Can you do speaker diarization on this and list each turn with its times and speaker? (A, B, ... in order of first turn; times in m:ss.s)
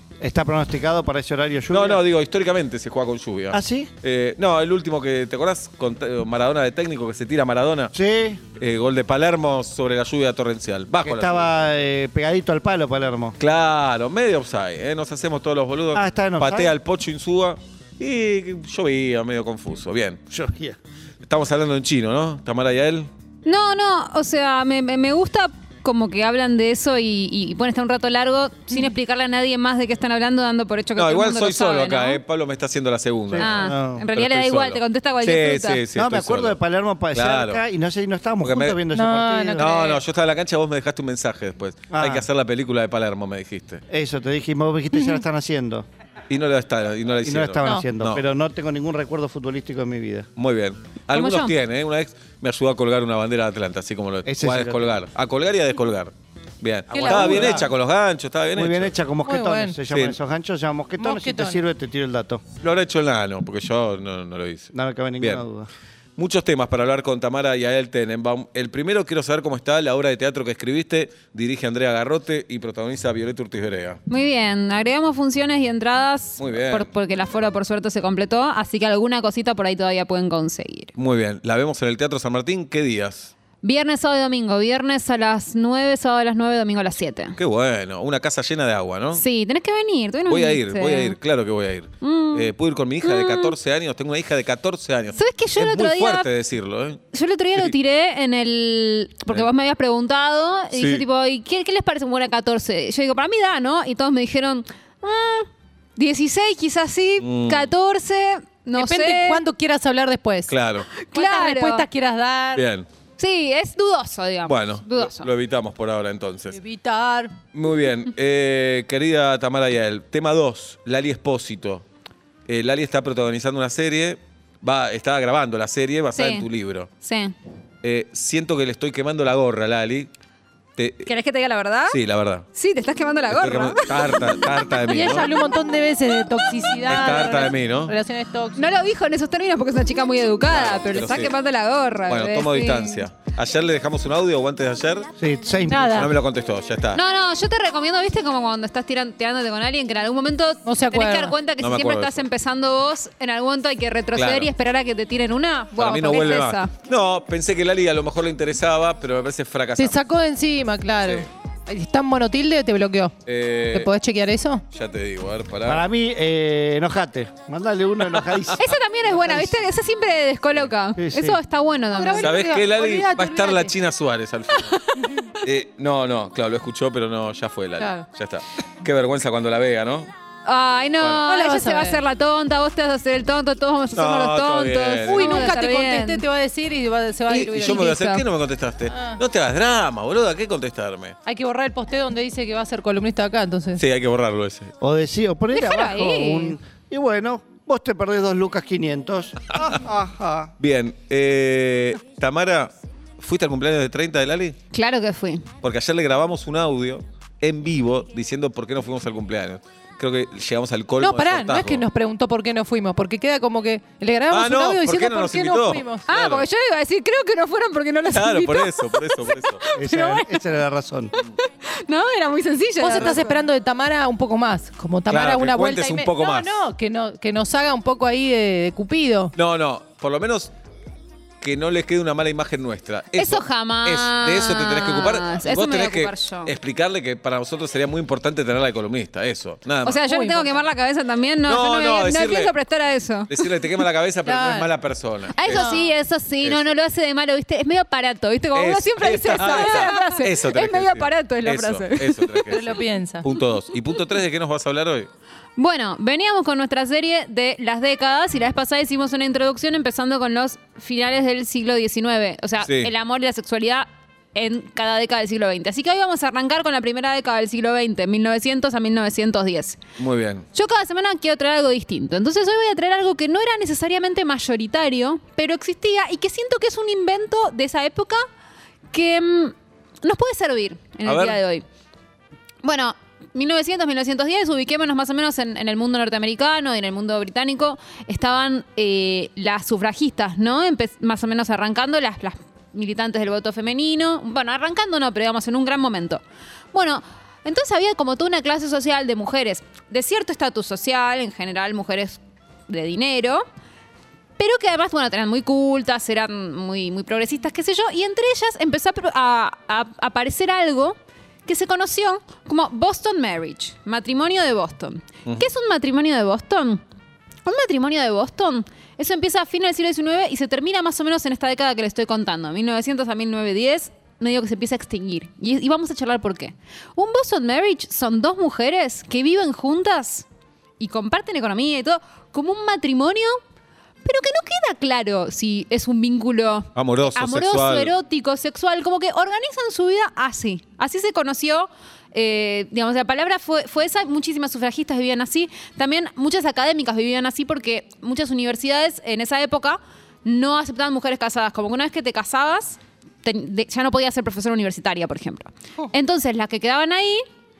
0:00.2-0:02.0 A
0:01.7-0:07.9 B
0:03.5-0:03.9 A
0:07.9-0:08.4 A
0:08.6-0:11.5 B
0:11.0-0:13.4 A
0:13.4-0:20.2 B
0:15.9-0:16.7 A
0:20.3-0:20.8 A
0:21.2-0:23.1 B
0:23.4-0:32.2 C
0:31.0-0:36.6 B
0:33.3-0:34.0 A
0:33.4-0:35.8 C
0:36.0-0:39.9 A
0:37.1-0:37.6 B
0:38.4-0:38.8 B
0:38.9-0:40.0 D
0:39.6-0:43.8 B
0:41.9-0:42.2 A
0:43.9-0:45.8 A
0:46.3-0:48.2 B
0:47.2-0:50.3 A
0:50.4-0:58.9 B
0:51.1-0:51.5 C
0:54.2-0:54.9 A
0:56.9-0:57.6 D
0:56.9-0:57.7 A
0:58.5-1:02.4 A
0:59.2-0:59.8 D
0:59.9-1:00.2 B
1:01.0-1:01.6 D
1:02.6-1:05.4 B
1:04.7-1:05.7 A
1:06.2-1:14.0 B
1:14.1-1:20.9 C
1:16.4-1:16.9 B
1:21.0-1:23.3 B
1:23.6-1:27.4 C
1:27.4-1:29.2 B
1:29.1-1:31.2 C
1:30.2-1:37.0 B
1:32.0-1:33.5 C
1:35.1-1:36.3 C
1:37.1-1:49.4 C
1:40.7-1:41.0 B
1:47.2-1:47.7 B
1:48.7-1:50.6 D
1:50.5-1:51.0 B
1:51.0-1:51.9 C
1:51.1-1:52.6 D
1:52.5-1:52.8 B
1:53.2-1:55.3 C
1:54.4-1:56.6 B
1:56.5-1:57.4 D
1:57.5-2:01.8 B
2:02.5-2:06.9 B
2:06.1-2:06.5 C
2:07.0-2:07.4 C
2:07.8-2:10.1 B
2:10.8-2:11.1 B
2:11.0-2:12.0 C
2:11.9-2:12.4 B
2:12.5-2:14.4 C
2:13.3-2:15.3 B
2:14.9-2:18.7 D
2:16.9-2:17.9 B
2:18.5-2:23.0 C
2:20.5-2:21.3 B
2:22.1-2:25.1 B
2:25.2-2:26.1 A
2:25.7-2:26.1 D
2:25.9-2:27.0 B
2:26.9-2:36.7 C
2:30.6-2:31.4 D
2:31.6-2:32.2 B
2:34.1-2:34.5 B
2:35.7-2:40.0 B
2:39.8-2:43.2 D
2:41.0-2:41.3 B
2:43.2-2:43.9 B
2:43.7-2:44.6 D
2:44.7-2:45.8 B
2:45.6-2:48.6 A
2:48.6-2:52.3 C
2:49.2-2:49.5 A
2:51.0-2:51.4 A
2:51.9-2:53.7 D
2:52.2-2:54.8 B
2:54.7-2:55.1 C
2:55.4-3:00.1 B
2:57.8-2:58.0 D
3:00.4-3:06.2 C
3:01.0-3:01.2 B
3:01.3-3:02.0 D
3:04.0-3:05.5 B
3:05.0-3:07.9 D
3:07.3-3:11.1 B
3:07.4-3:08.2 C
3:08.9-3:09.2 D
3:11.2-3:13.8 D
3:13.8-3:14.7 B
3:14.8-3:20.5 A
3:15.5-3:16.6 C
3:20.6-3:24.6 B
3:24.7-3:25.5 C
3:25.6-3:31.8 B
3:31.0-3:36.0 D
3:34.3-3:36.4 B
3:36.1-3:40.4 C
3:38.1-3:39.6 B
3:39.8-3:41.1 A
3:41.2-3:43.4 C
3:42.8-3:49.3 D
3:45.1-3:46.6 B
3:49.4-3:50.5 B
3:51.4-4:00.0 B
3:53.2-3:56.5 C
3:59.8-4:03.5 C
4:00.0-4:00.6 D
4:01.4-4:02.5 B
4:03.3-4:05.8 B
4:04.2-4:04.7 D
4:05.3-4:12.6 C
4:05.5-4:05.8 D
4:08.5-4:15.1 B
4:12.5-4:13.2 D
4:15.6-4:29.8 C
4:22.6-4:22.9 B
4:30.0-4:30.4 B
4:30.5-4:38.2 C
4:38.9-4:41.6 C
4:41.0-4:41.4 B
4:42.6-4:56.2 C
4:56.7-5:03.4 C
5:04.4-5:10.9 C
5:11.4-5:16.8 C
5:17.4-5:30.3 C
5:30.8-5:33.3 C
5:34.0-5:57.2 C
5:36.7-5:37.9 B